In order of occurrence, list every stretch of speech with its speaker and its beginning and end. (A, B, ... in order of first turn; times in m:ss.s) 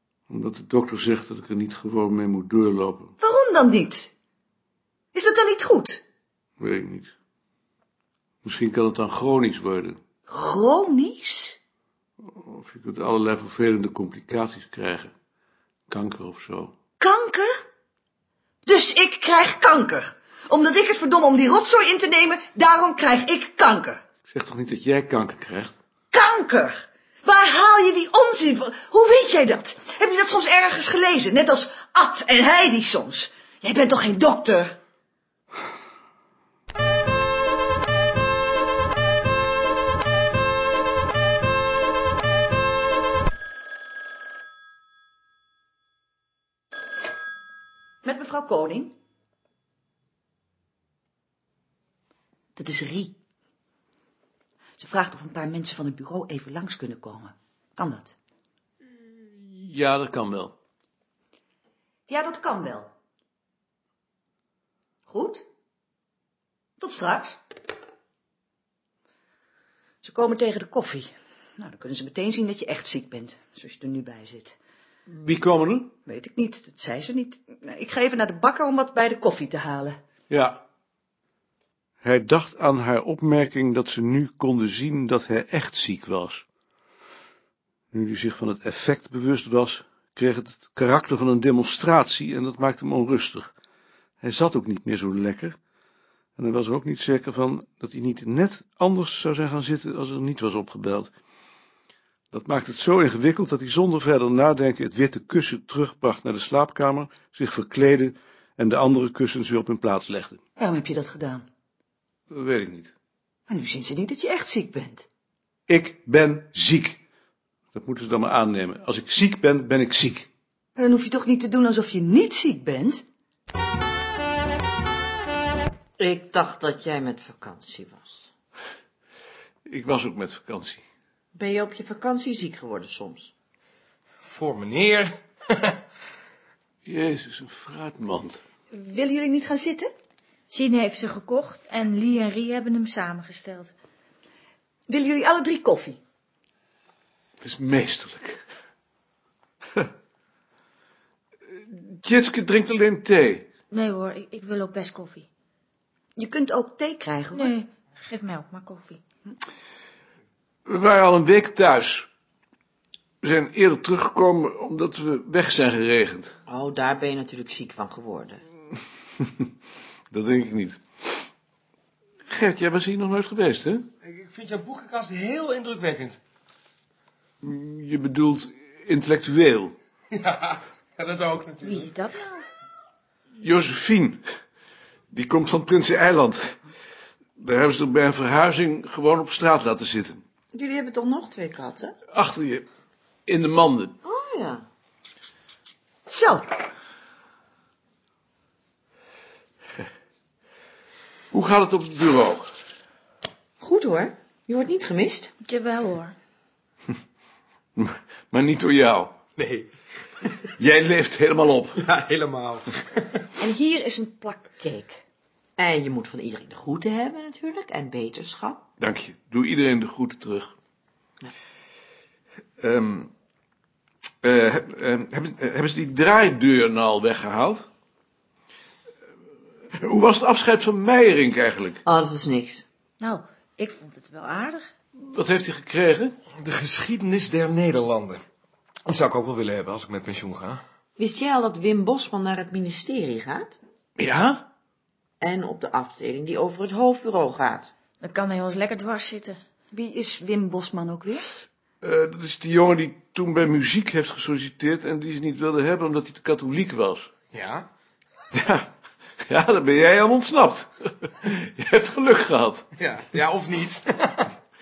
0:00.3-0:03.1 A
0:03.2-0:04.1 B
0:05.1-0:06.0 B
0:06.6-0:07.1 A
0:08.4-0:10.0 A
0:10.3-0:11.6 B
0:12.2-0:15.1 A
0:15.9-0:16.7 A
0:17.0-0:17.5 B
0:18.6-0:24.0 B
0:24.3-0:25.8 A
0:26.1-0:34.8 B
0:48.0-0:48.9 B
0:52.6-0:53.2 B
0:54.8-0:58.2 B
0:59.0-1:00.6 A
1:02.1-1:02.9 B
1:05.1-1:05.4 B
1:06.8-1:07.4 B
1:10.0-1:14.6 B
1:15.1-1:15.9 A
1:16.1-1:20.0 B
1:20.3-1:20.6 A
1:22.0-1:26.4 A
1:27.9-1:33.5 A
1:34.2-1:35.6 A
1:36.4-1:41.1 A
1:42.3-1:50.4 A
1:50.6-1:51.5 B
1:52.3-1:52.9 A
1:53.5-1:55.1 B
1:55.7-1:57.0 A
1:57.7-2:00.3 A
2:00.8-2:03.0 B
2:06.0-2:08.3 C
2:09.7-2:10.8 A
2:11.4-2:13.3 C
2:14.2-2:15.2 D
2:16.8-2:18.4 A
2:18.7-2:19.9 B
2:20.5-2:23.7 E
2:24.9-2:26.0 B
2:27.4-2:28.4 A
2:31.5-2:33.5 A
2:33.7-2:35.3 E
2:36.2-2:37.5 B
2:37.3-2:39.0 E
2:40.7-2:42.1 A
2:43.2-2:46.4 A
2:46.5-2:48.4 C
2:50.1-2:51.3 A
2:52.3-2:53.9 A
2:54.0-2:56.2 D
2:57.4-2:59.8 A
3:00.2-3:01.8 D
3:01.6-3:02.4 E
3:03.3-3:04.2 A
3:05.1-3:06.6 A
3:07.4-3:10.2 A
3:10.5-3:11.9 C
3:12.1-3:12.6 A
3:13.3-3:14.0 A
3:14.0-3:14.7 C
3:16.1-3:16.5 B
3:21.3-3:22.5 A
3:23.6-3:24.0 B
3:24.5-3:25.0 C
3:25.4-3:26.2 E
3:27.8-3:29.2 A
3:29.4-3:29.7 D
3:30.6-3:31.9 A
3:31.9-3:32.7 D
3:33.4-3:35.0 B
3:35.6-3:38.6 C
3:38.8-3:40.5 A
3:42.6-3:43.1 A
3:44.2-3:47.7 A
3:49.7-3:51.8 A
3:51.9-3:52.6 C
3:53.0-3:54.7 E
3:55.0-3:56.2 A
3:56.4-3:58.2 D
3:58.9-4:00.6 D
4:01.0-4:03.6 C
4:04.0-4:04.5 A
4:05.2-4:07.7 C
4:08.0-4:09.4 E
4:09.7-4:11.3 B
4:11.8-4:17.1 A
4:17.3-4:17.7 D
4:18.3-4:18.7 A
4:19.2-4:22.6 A
4:22.8-4:24.3 D